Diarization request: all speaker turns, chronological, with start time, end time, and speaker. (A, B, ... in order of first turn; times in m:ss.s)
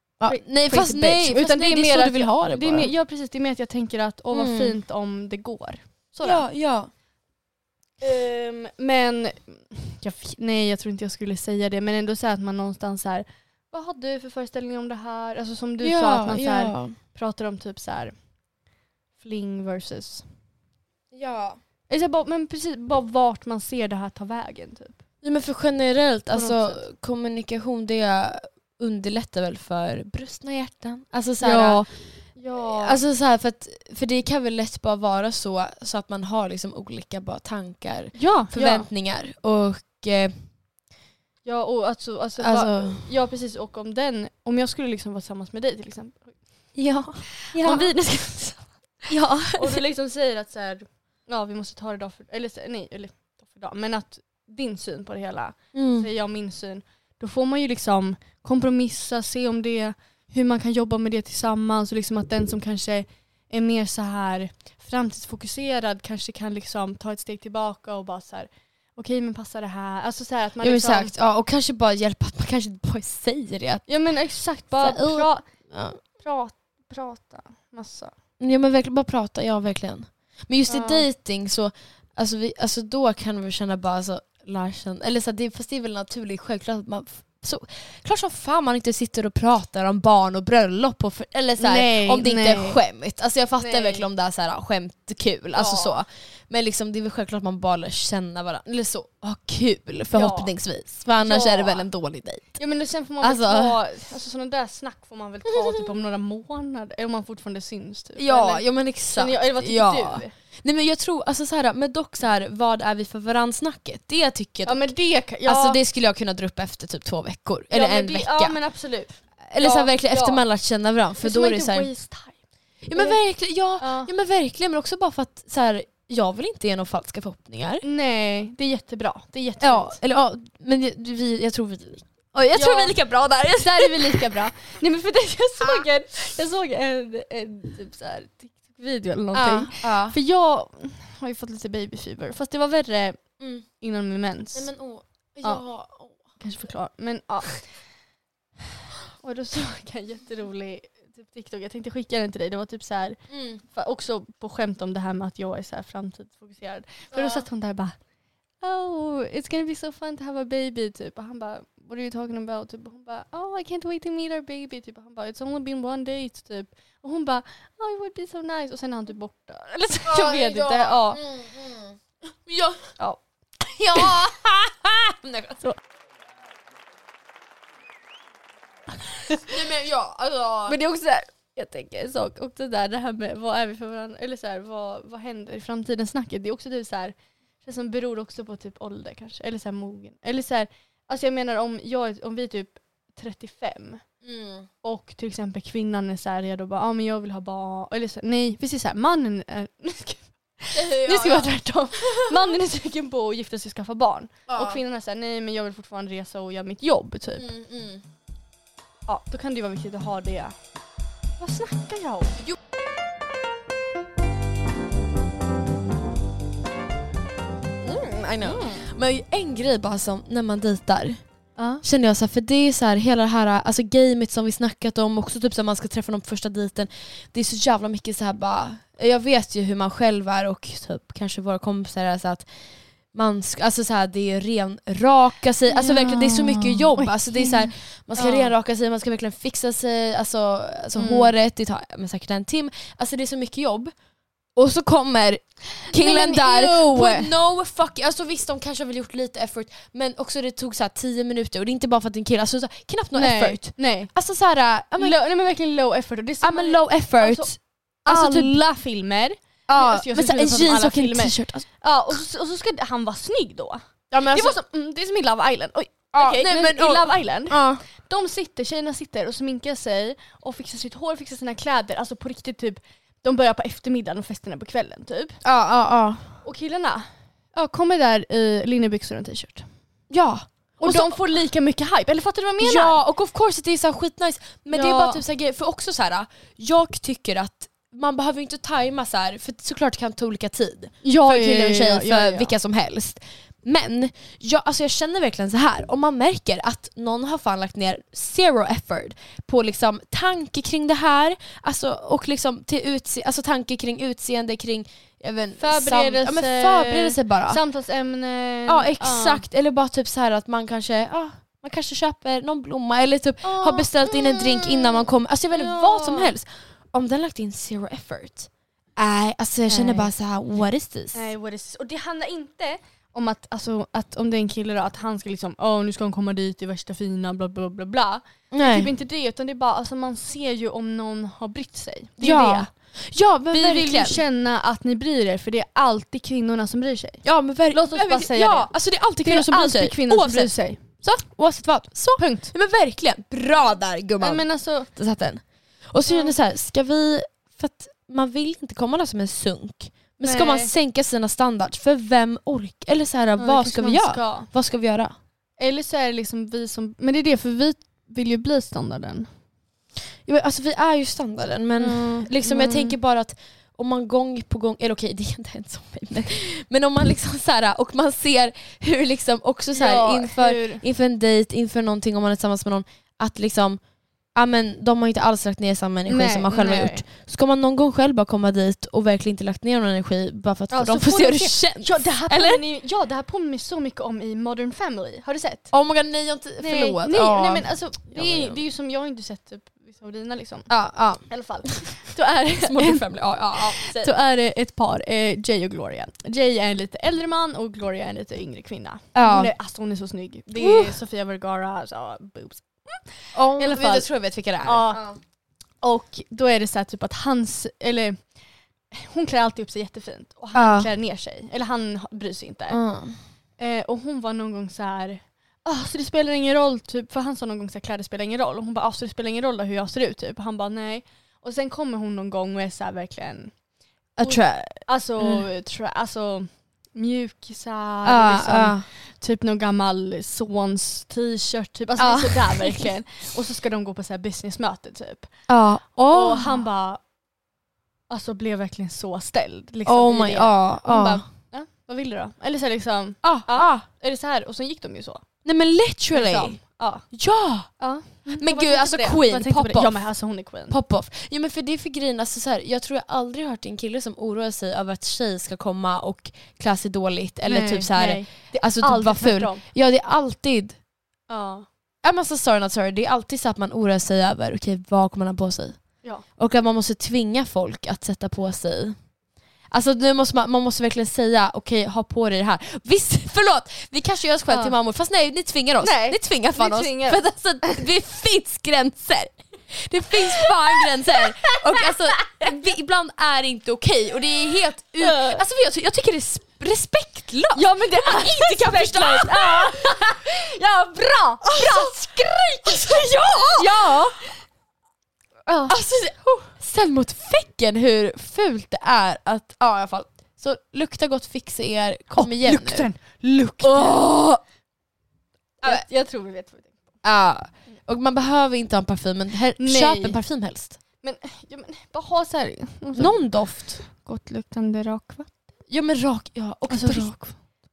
0:00.2-0:02.9 A
0:00.2-0:06.4 B
0:04.3-0:04.8 A
0:06.2-0:06.9 A
0:08.0-0:18.1 B
0:15.8-0:17.0 A
0:19.2-0:20.2 B
0:21.1-0:21.6 A
0:21.9-0:25.0 B
0:25.2-0:31.8 A
0:26.3-0:26.8 B
0:31.4-0:33.0 B
0:32.6-0:40.3 A
0:38.1-0:38.9 B
0:41.4-0:46.4 B
0:42.4-0:43.1 A
0:46.7-0:47.9 A
0:47.3-1:11.1 B
0:49.1-0:49.8 A
0:55.7-0:56.1 A
1:10.6-1:13.8 A
1:13.9-1:15.4 B
1:14.8-1:16.0 A
1:16.1-1:18.1 B
1:18.4-1:42.6 A
1:20.7-1:21.1 B
1:31.6-1:32.8 B
1:33.6-1:34.0 B
1:35.5-1:36.0 B
1:40.1-1:40.5 B
1:41.2-1:41.8 B
1:42.6-1:50.3 B
1:43.2-1:43.8 A
1:45.5-1:45.9 A
1:48.2-1:54.9 A
1:54.6-1:55.8 B
1:55.4-1:58.6 A
1:57.7-2:00.4 B
1:59.5-2:01.9 A
2:01.2-2:02.4 B
2:02.8-2:07.8 A
2:02.9-2:03.2 B
2:03.8-2:04.1 B
2:07.8-2:10.0 B
2:09.6-2:14.4 A
2:12.5-2:13.0 B
2:13.6-2:23.2 B
2:15.6-2:15.8 A
2:19.3-2:20.2 A
2:23.4-2:23.6 A
2:23.8-2:24.7 B
2:24.5-2:26.2 A
2:26.4-2:27.6 B
2:29.0-2:33.2 B
2:33.3-2:33.6 A
2:33.7-2:38.0 B
2:37.1-2:37.5 A
2:38.6-2:51.2 B
2:50.0-2:52.9 A
2:53.7-2:55.6 A
2:59.1-2:59.5 B
2:59.4-3:00.8 A
3:00.7-3:14.0 B
3:14.2-3:14.7 A
3:14.8-3:27.5 B
3:20.7-3:22.5 A
3:24.5-3:24.8 A
3:27.4-3:28.0 A
3:29.1-3:30.6 B
3:31.4-3:32.4 B
3:37.8-3:41.2 A
3:38.4-3:38.8 B
3:41.6-3:41.8 B
3:41.8-3:52.4 A
3:53.1-4:03.9 A
3:55.7-3:58.5 B
4:01.0-4:01.3 B
4:04.6-4:15.2 A
4:05.8-4:07.3 B
4:13.1-4:14.1 B
4:15.0-4:17.5 B
4:16.4-4:18.6 A
4:18.0-4:35.4 B
4:19.7-4:21.6 A
4:24.1-4:24.6 A
4:26.1-4:27.8 A
4:35.4-4:36.3 A
4:36.4-4:39.7 B
4:40.1-4:41.2 A
4:40.8-4:43.0 B
4:42.6-5:07.6 A
4:44.7-4:45.2 B
4:51.0-4:52.5 B
5:05.6-5:09.4 B
5:08.7-5:21.3 A
5:13.4-5:16.3 B
5:19.7-5:20.1 B
5:21.1-5:32.7 B
5:28.5-5:28.9 A
5:32.2-5:34.2 A
5:33.5-5:38.7 B
5:37.2-5:55.1 A
5:39.2-5:40.8 B
5:42.2-5:42.5 B
5:44.2-5:44.9 B
5:46.1-5:46.3 B
5:50.2-5:50.7 B
5:53.4-5:54.5 B
5:55.6-5:59.3 B
6:00.2-6:13.8 A
6:01.8-6:03.0 B
6:09.7-6:10.8 B
6:14.3-6:22.6 A
6:16.1-6:17.0 B
6:20.7-6:25.7 B
6:25.7-6:28.6 A
6:26.6-6:30.7 B
6:30.7-6:32.0 A
6:31.3-6:33.0 B
6:32.5-6:34.1 A
6:33.6-6:44.1 B
6:39.1-6:39.5 A
6:40.6-6:41.0 A
6:43.3-6:45.2 A
6:44.6-6:45.0 B
6:45.8-6:48.2 B
6:48.9-6:52.8 B
6:50.5-6:50.9 A
6:52.7-6:53.2 A
6:53.6-7:03.5 B
7:04.2-7:05.4 A
7:04.2-7:15.3 B
7:08.0-7:08.8 A
7:12.0-7:12.9 A
7:15.5-7:16.6 A
7:16.0-7:17.0 B
7:18.1-7:25.2 B
7:19.8-7:21.2 A
7:23.2-7:23.8 A
7:25.4-7:26.6 A
7:26.1-7:27.0 B
7:27.1-7:27.7 A
7:27.8-7:30.8 B
7:28.3-7:30.1 A
7:30.7-7:40.8 A
7:37.4-7:39.6 B
7:41.3-7:41.6 B
7:42.0-7:45.8 A
7:46.4-7:49.0 A
7:49.7-8:10.1 A
7:54.5-7:54.7 B
7:55.8-7:57.8 B
8:00.1-8:02.5 B
8:05.0-8:05.4 B
8:07.5-8:14.3 B
8:11.4-8:14.2 A
8:15.5-8:15.8 B
8:15.7-8:22.9 A
8:22.2-8:24.0 B
8:23.6-8:24.4 A
8:25.6-8:26.9 B
8:27.0-8:30.8 A
8:29.6-8:30.2 B
8:31.0-8:35.3 B
8:32.9-8:33.8 A
8:35.7-8:37.2 A
8:36.7-8:37.3 B